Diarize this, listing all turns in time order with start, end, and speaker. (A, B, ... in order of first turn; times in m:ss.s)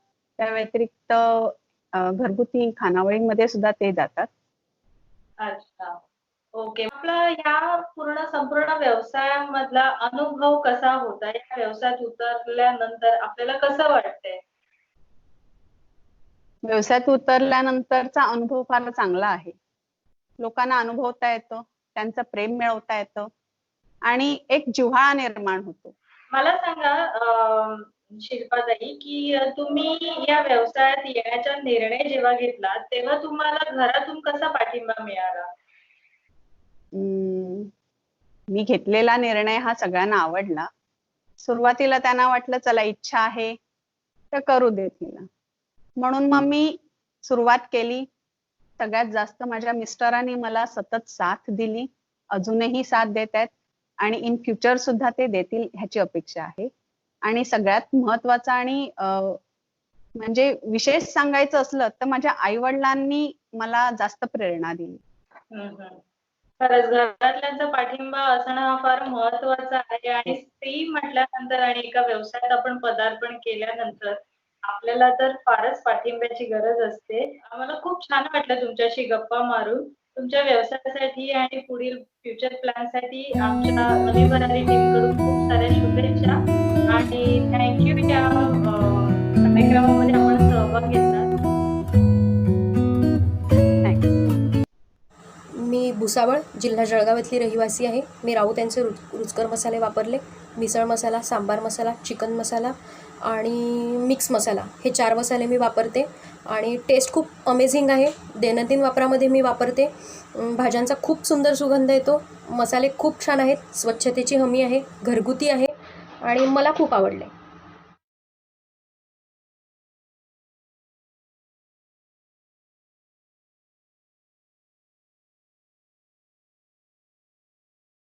0:00.4-0:04.3 A
0:05.4-0:06.0 B
0:06.5-0:14.4 B
0:16.6-0:19.6 A
0:20.4-0:23.3 A
0:24.0-0:25.9 A
0:26.3-0:35.5 B
0:36.9-0:37.7 A
0:38.5-0:40.7 A
0:41.4-0:43.6 A
0:44.3-0:45.3 A
0:46.0-0:48.1 A
0:48.8-0:56.7 A
0:57.2-0:59.4 A
1:00.2-1:05.0 A
1:05.5-1:06.0 B
1:06.6-1:31.3 B
1:35.6-1:57.3 C